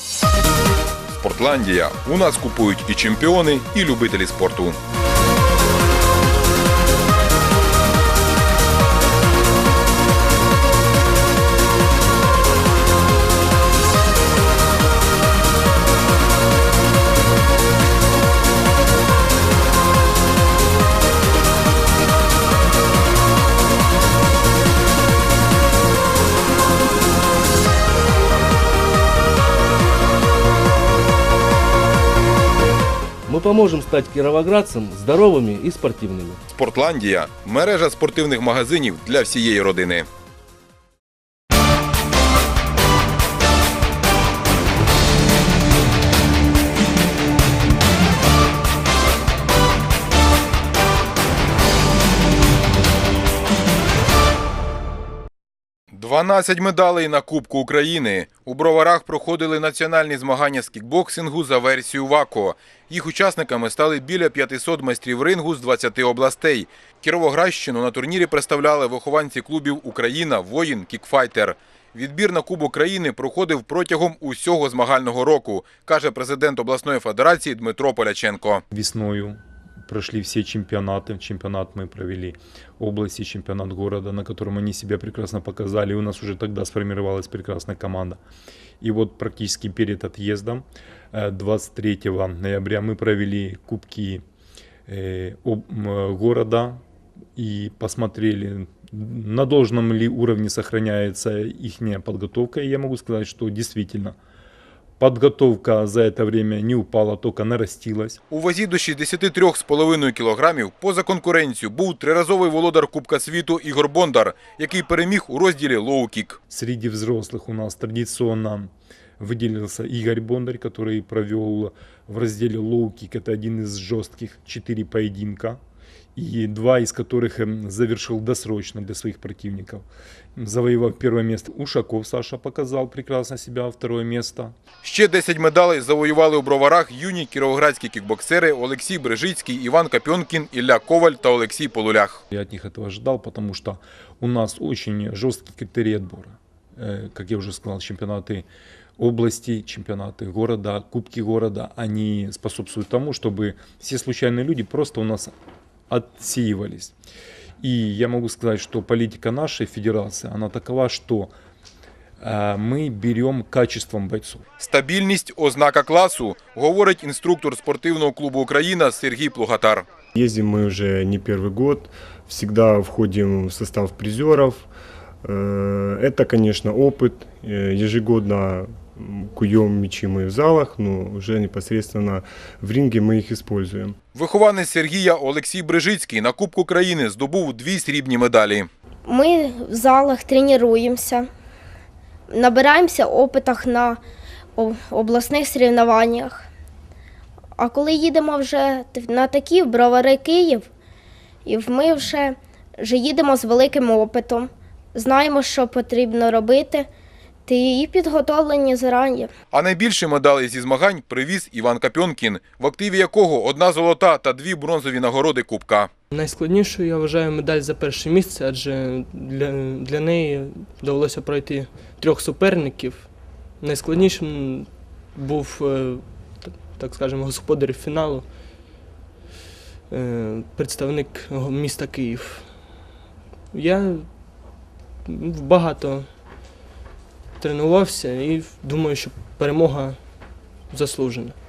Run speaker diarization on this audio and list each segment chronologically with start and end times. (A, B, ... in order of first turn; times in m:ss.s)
0:01.2-0:04.8 A
0:33.3-0:36.4 B
0:36.5-0:40.1 A
0:55.9-1:18.6 A
1:18.7-1:28.2 C
1:28.8-1:34.2 C
1:34.9-1:36.8 C
1:37.4-1:44.2 C
1:45.0-1:48.2 C
1:48.3-1:56.4 A
1:56.5-2:05.6 C
2:06.1-2:09.8 C
2:10.4-2:14.5 C
2:14.8-2:22.2 A
2:22.3-2:28.5 C
2:29.0-2:35.3 C
2:35.9-2:36.9 C
2:37.6-2:41.3 C
2:42.2-2:44.4 C
2:44.6-2:49.8 A
2:50.1-2:54.7 D
2:55.2-3:04.0 D
3:04.1-3:08.7 A
3:09.0-3:11.3 E
3:12.3-3:14.0 E
3:14.6-3:16.5 E
3:17.6-3:20.7 E
3:21.4-3:26.9 E
3:27.4-3:29.3 E
3:29.5-3:35.9 A
3:36.1-3:48.3 F
3:49.9-3:52.9 F
3:53.5-3:56.1 F
3:57.4-4:01.4 F